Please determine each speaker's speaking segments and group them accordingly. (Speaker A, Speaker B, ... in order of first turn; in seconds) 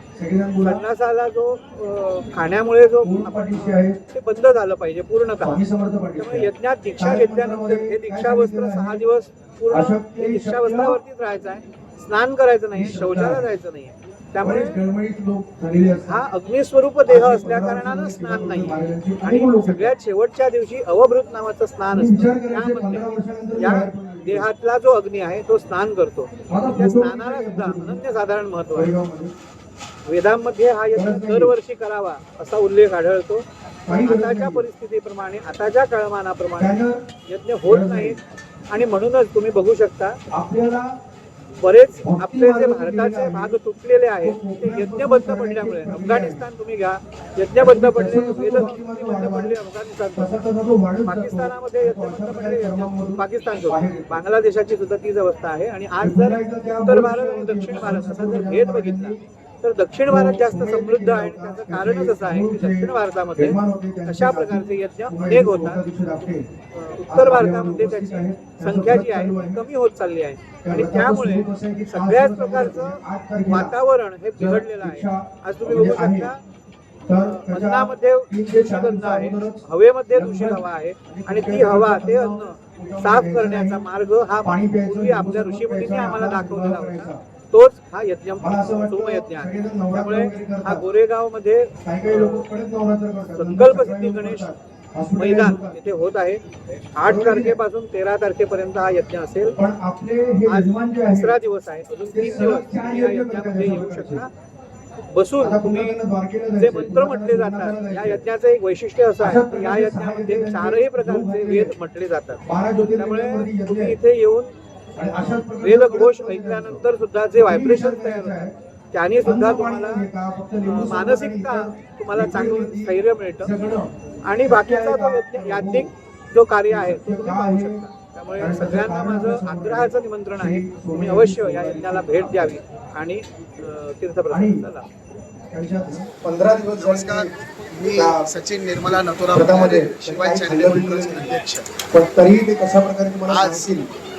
Speaker A: 0.1-0.8, 3.0-4.0, 5.4-9.0, 9.7-11.0, 12.7-13.4, 14.4-16.2, 17.1-19.9, 21.9-24.5, 26.5-28.0, 28.7-29.3, 30.9-31.5, 33.9-34.6, 36.6-37.0, 37.7-38.2, 40.3-40.9, 42.0-43.5, 44.2-46.4, 47.6-49.6, 50.1-54.1, 56.0-59.2, 60.1-66.5, 67.1-69.6, 70.6-73.7, 74.4-76.3, 77.1-83.8, 84.4-87.2, 88.4-90.8, 91.8-95.8, 97.0-97.6, 99.6-101.3, 102.1-104.3, 105.4-108.2, 109.2-111.7, 112.5-114.0, 115.0-116.8, 117.3-118.5, 119.2-125.9, 126.7-127.8, 128.4-132.5, 134.3-134.7, 135.5-137.3, 137.9-138.3, 139.3-141.3, 141.9-143.9
Speaker B: 0.6-5.6, 6.2-14.8, 16.1-28.9, 30.1-38.2, 38.7-40.2, 41.6-50.3, 51.0-65.8, 66.7-76.4, 77.2-92.5, 93.3-94.5, 95.2-96.4, 97.0-99.6, 100.5-104.3, 105.1-106.0, 106.6-112.4, 113.0-120.0, 120.6-123.5, 124.2-134.9
Speaker C: 136.8-141.8, 143.3-143.7